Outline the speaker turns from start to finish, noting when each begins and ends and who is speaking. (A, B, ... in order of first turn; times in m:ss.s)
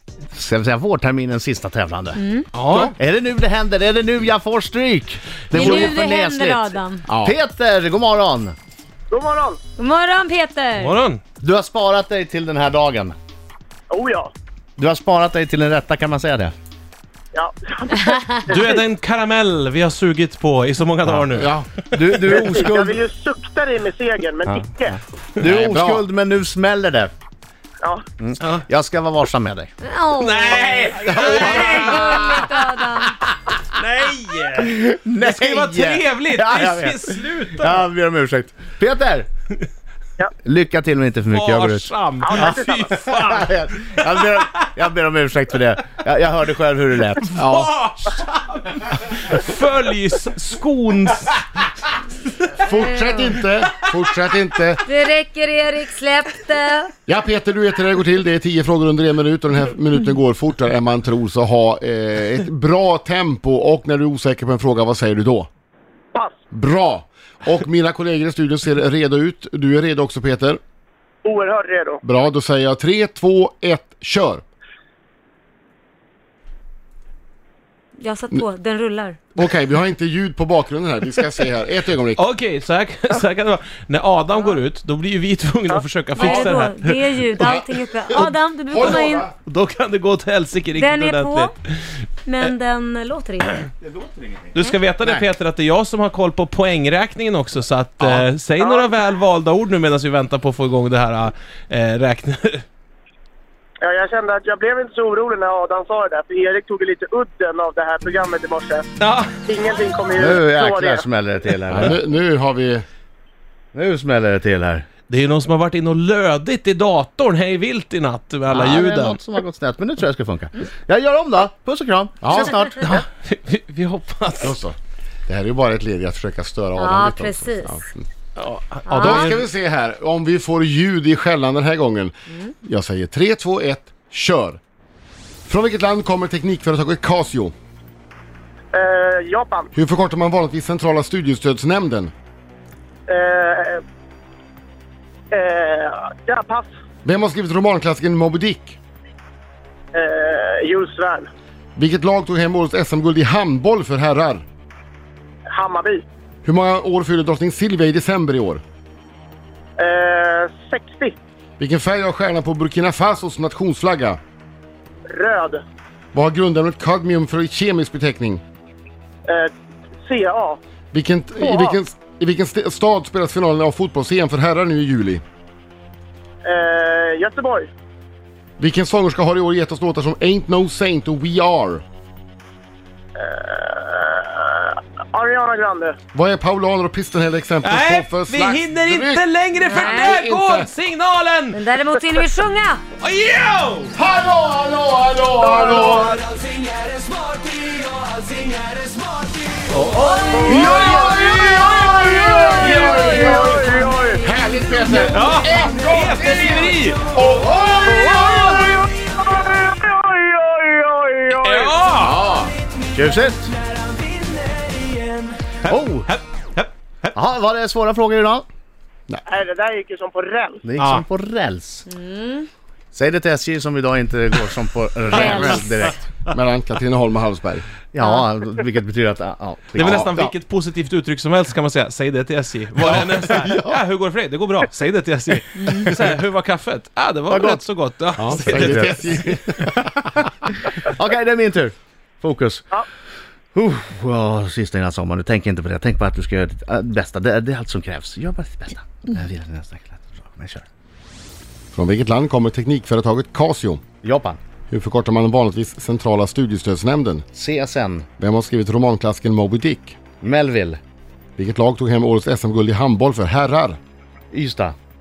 0:00.3-0:08.6 A
0:02.2-0:02.5 B
0:02.5-0:02.9 C
0:05.5-0:07.0 B
0:07.1-0:07.4 D
0:09.1-0:09.6 E
0:09.8-0:11.0 B
0:10.8-0:11.2 C
0:11.4-0:13.2 A
0:13.9-0:14.3 E
0:14.8-0:16.6 A
0:17.3-0:18.8 E
0:18.1-0:18.5 B
0:18.5-0:22.3 C
0:21.4-0:21.7 D
0:21.9-0:23.0 A
0:22.3-0:25.0 E
0:25.4-0:27.1 A
0:25.4-0:26.1 D
0:28.2-0:29.7 A
0:29.8-0:33.2 B
0:30.2-0:32.4 C
0:31.0-0:32.5 A
0:33.8-0:37.9 C
0:34.6-0:39.3 A
0:40.4-0:42.5 A
0:41.3-0:44.4 C
0:42.2-0:43.0 E
0:43.1-0:47.4 A
0:47.3-0:51.5 C
0:47.4-0:47.7 D
0:52.6-0:54.8 D
0:52.7-0:53.2 B
0:54.9-0:56.9 B
0:57.1-1:05.5 D
1:06.5-1:10.6 D
1:11.2-1:12.0 E
1:12.0-1:14.4 D
1:18.0-1:19.2 B
1:19.4-1:22.2 D
1:22.2-1:32.5 C
1:25.7-1:26.4 E
1:26.2-1:29.3 B
1:27.4-1:29.3 D
1:30.8-1:31.5 B
1:32.3-1:33.7 B
1:33.8-1:34.6 A
1:34.5-1:42.6 C
1:38.6-1:38.9 E
1:43.8-1:48.9 E
1:49.0-1:49.3 C
1:49.5-1:51.0 E
1:50.2-1:52.0 A
1:51.7-1:52.8 D
1:53.7-1:54.9 A
1:55.1-1:59.2 C
1:58.5-2:03.0 A
2:02.2-2:02.6 D
2:02.8-2:04.6 C
2:04.4-2:04.8 D
2:05.3-2:08.1 D
2:06.8-2:07.8 B
2:08.4-2:09.4 C
2:08.9-2:09.3 B
2:09.0-2:14.6 D
2:15.5-2:17.5 D
2:18.7-2:19.7 E
2:19.7-2:22.1 D
2:23.1-2:23.8 E
2:25.3-2:26.7 E
2:27.0-2:28.8 D
2:29.9-2:31.3 E
2:31.8-2:34.4 D
2:35.5-2:36.0 E
2:36.4-2:38.6 D
2:39.8-2:41.2 E
2:41.6-2:44.2 D
2:45.1-2:45.6 E
2:46.1-2:48.4 D
2:50.0-2:50.6 E
2:50.9-2:55.2 D
2:51.4-2:51.8 E
2:56.4-2:57.7 E
2:58.6-3:01.8 D
3:03.2-3:06.0 E
3:06.1-3:10.7 D
3:07.6-3:11.6 C
3:09.6-3:10.2 B
3:11.5-3:12.8 B
3:13.0-3:13.9 C
3:13.9-3:16.2 D
3:15.7-3:16.2 E
3:16.3-3:18.9 C
3:19.5-3:21.0 C
3:20.3-3:21.4 E
3:20.4-3:28.9 D
3:20.9-3:24.2 B
3:22.5-3:23.1 C
3:22.6-3:24.2 E
3:25.1-3:27.1 C
3:27.8-3:31.8 E
3:31.3-3:32.2 C
3:32.0-3:32.5 D
3:32.9-3:33.5 A
3:34.5-3:37.2 C
3:35.6-3:36.1 A
3:37.1-3:38.5 A
3:39.3-3:40.6 E
3:40.6-3:41.9 A
3:40.8-3:41.0 C
3:41.9-3:42.5 B
3:42.9-3:46.1 A
3:45.1-3:45.6 D
3:45.1-3:45.7 B
3:46.3-3:47.7 D
3:47.9-3:50.1 A
3:49.8-3:59.4 C
3:49.8-3:50.3 D
3:53.4-3:53.7 A
3:55.6-3:55.9 B
3:57.3-3:57.6 A
3:58.2-3:59.8 D
3:58.4-3:58.9 A
4:00.6-4:02.7 A
4:03.5-4:10.7 A
4:11.7-4:13.8 D
4:14.0-4:14.4 A
4:14.7-4:17.2 D
4:17.3-4:18.1 A
4:18.2-4:20.0 D
4:20.2-4:20.8 A
4:21.4-4:23.8 D
4:24.3-4:24.8 A